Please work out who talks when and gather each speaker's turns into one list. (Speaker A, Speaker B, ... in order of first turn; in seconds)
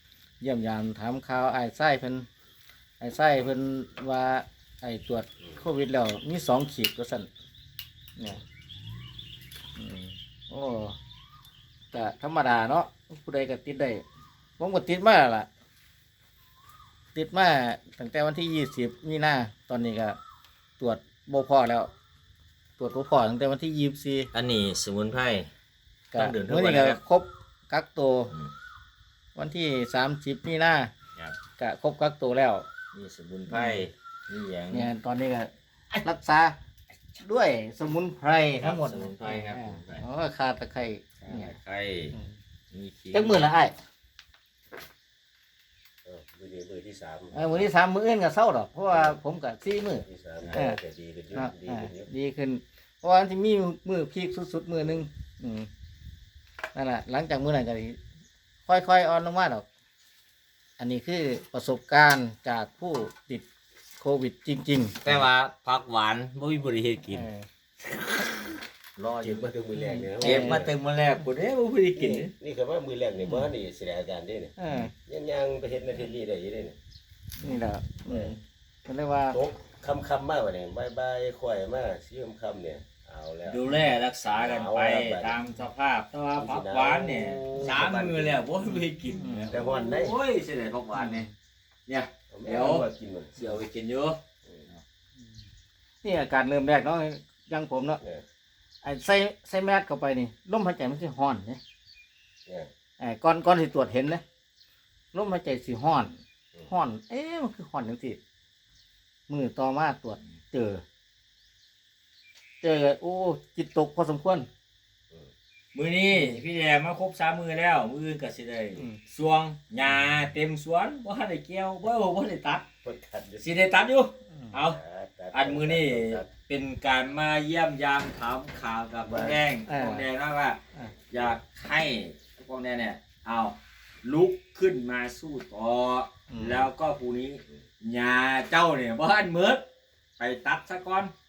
Speaker A: 0.4-2.3, 3.0-7.3, 9.8-11.0, 11.9-14.0, 14.6-15.5, 17.1-20.2, 20.8-21.9, 22.8-24.3, 26.1-28.3, 29.4-30.9, 31.6-32.7, 33.5-33.9, 34.7-35.5, 36.0-36.5, 37.1-41.5, 43.1-43.7, 47.3-50.8, 51.3-55.7, 56.7-58.0, 58.7-59.6, 60.8-63.5, 64.0-65.3, 67.0-67.5, 69.7-70.6, 73.2-73.5, 74.6-74.9, 77.4-79.4, 88.6-89.6, 90.9-91.3, 96.0-98.0, 98.8-101.6, 103.0-104.2, 105.1-106.1, 106.7-108.2, 109.3-110.8, 112.6-114.5, 116.1-116.4, 129.7-130.1, 136.3-136.7
Speaker B: 24.3-25.5, 26.1-27.0, 32.9-34.9, 38.6-40.0, 41.2-42.1, 42.7-43.5, 65.0-67.2, 68.0-69.5, 70.2-72.3, 83.4-91.3, 91.9-94.2, 115.7-122.7, 123.4-124.8, 125.3-130.6, 131.1-139.6, 140.2-141.1
Speaker C: 46.0-47.7, 48.9-49.2, 49.9-52.1, 69.2-70.7, 71.9-76.8, 78.1-78.3, 79.3-83.6, 84.3-85.4, 86.4-88.5, 89.5-90.2, 92.3-93.6, 122.8-123.5, 124.5-126.3, 129.0-129.4